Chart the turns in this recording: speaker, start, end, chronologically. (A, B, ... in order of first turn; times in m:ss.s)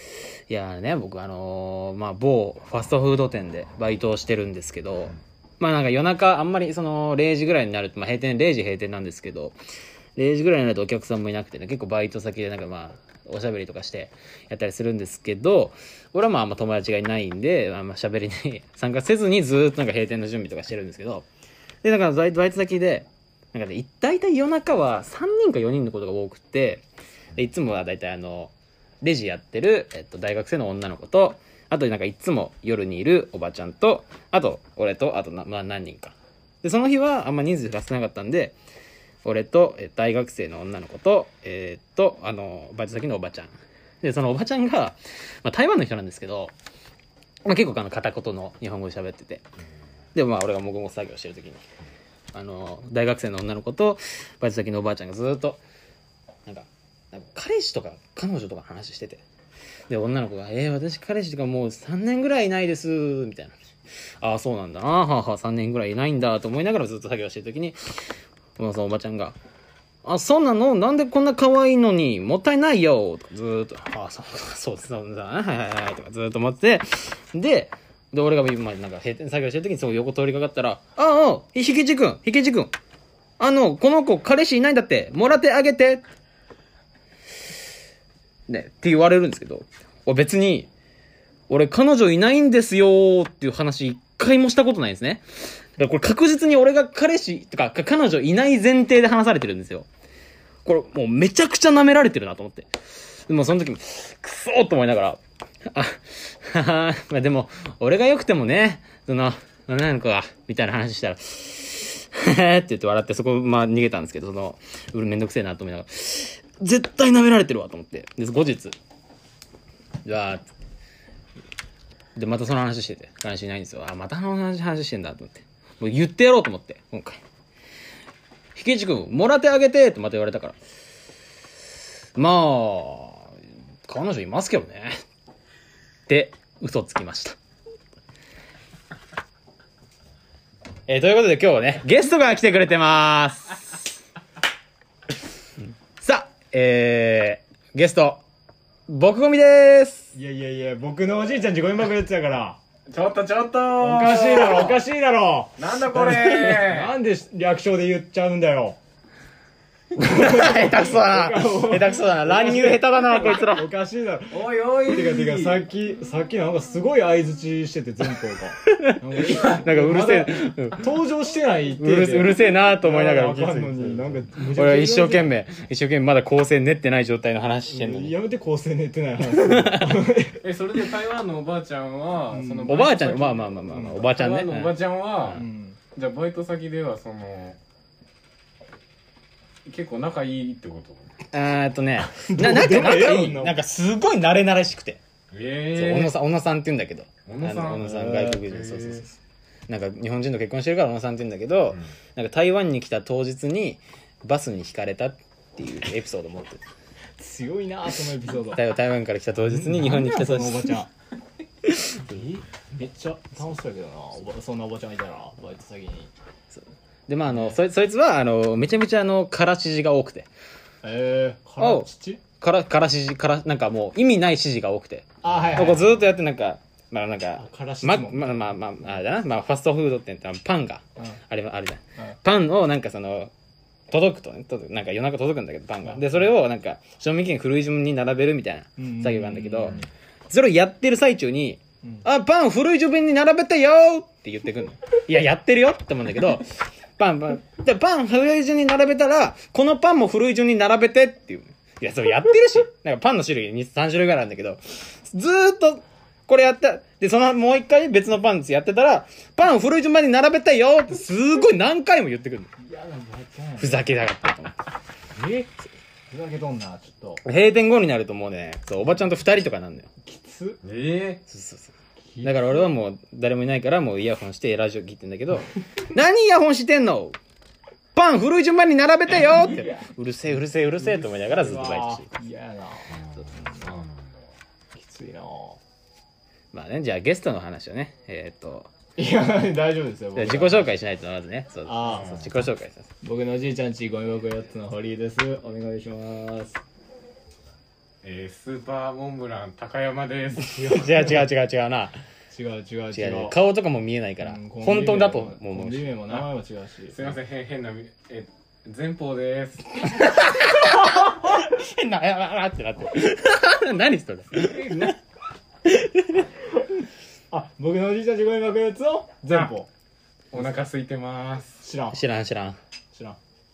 0:00.5-0:09.6 A
0:10.2-0:21.3 A
0:21.8-0:26.8 A
0:27.4-0:38.6 A
0:39.2-0:46.5 A
0:47.4-0:49.4 A
0:50.1-0:51.6 A
0:52.3-0:55.6 A
0:56.4-0:59.2 A
0:59.9-1:03.5 A
1:04.2-1:09.4 A
1:10.0-1:22.7 A
1:23.4-1:26.0 A
1:28.5-1:30.7 A
1:31.5-1:39.9 A
1:40.6-1:58.7 A
2:00.0-2:00.4 A
2:02.2-2:07.2 A
2:08.5-2:10.6 A
2:12.2-2:13.3 A
2:13.9-2:14.9 A
2:16.1-2:17.4 A
2:20.9-2:23.8 A
2:26.0-2:28.2 A
2:28.9-2:30.1 A
2:30.1-2:32.6 B
2:32.9-2:34.8 C
2:33.8-2:38.8 B
2:34.3-2:34.7 A
2:35.6-2:37.0 C
2:39.9-2:43.7 A
2:40.0-2:55.3 B
2:44.3-2:45.7 C
2:48.7-2:50.9 A
2:51.8-2:58.2 A
2:57.7-3:00.4 B
2:59.3-2:59.9 A
3:00.4-3:05.4 C
3:02.3-3:02.8 B
3:02.6-3:04.8 A
3:03.6-3:04.1 B
3:05.3-3:05.8 B
3:05.9-3:07.6 C
3:09.6-3:11.0 C
3:11.3-3:15.0 A
3:12.1-3:13.6 B
3:15.3-3:16.1 C
3:15.7-3:19.2 A
3:17.2-3:19.0 C
3:19.7-3:26.6 A
3:27.2-3:28.6 B
3:28.5-3:30.8 A
3:29.5-3:30.9 B
3:31.6-3:32.1 A
3:32.0-3:36.1 B
3:36.5-3:40.3 A
3:37.3-3:37.6 B
3:40.8-3:42.2 B
3:41.6-3:53.3 A
3:45.2-3:45.8 B
3:47.4-3:48.5 B
3:53.9-4:22.5 A
3:55.9-3:56.3 B
3:58.8-3:59.8 B
4:22.6-4:24.0 B
4:23.6-4:24.6 A
4:25.2-4:25.6 B
4:26.1-4:27.2 B
4:27.2-4:29.9 A
4:30.0-4:30.6 B
4:30.6-4:31.2 C
4:31.3-4:37.2 A
4:32.1-4:32.7 B
4:37.9-4:42.1 A
4:39.5-4:39.8 B
4:40.8-4:43.8 B
4:43.0-4:44.2 C
4:44.7-4:45.6 B
4:46.5-4:48.7 A
4:49.0-4:50.7 B
4:50.1-4:52.9 A
4:51.6-4:52.1 B
4:51.9-4:52.3 C
4:53.0-4:56.6 B
4:58.0-5:00.7 C
5:00.4-5:02.0 A
5:00.5-5:01.2 B
5:02.3-5:03.4 B
5:02.9-5:06.2 A
5:04.2-5:07.0 B
5:06.9-5:09.8 C
5:09.9-5:15.0 A
5:14.5-5:14.9 B
5:15.6-5:16.3 A
5:17.3-5:19.7 B
5:20.3-5:21.6 C
5:21.6-5:22.0 B
5:21.9-5:22.6 A
5:22.9-5:23.2 B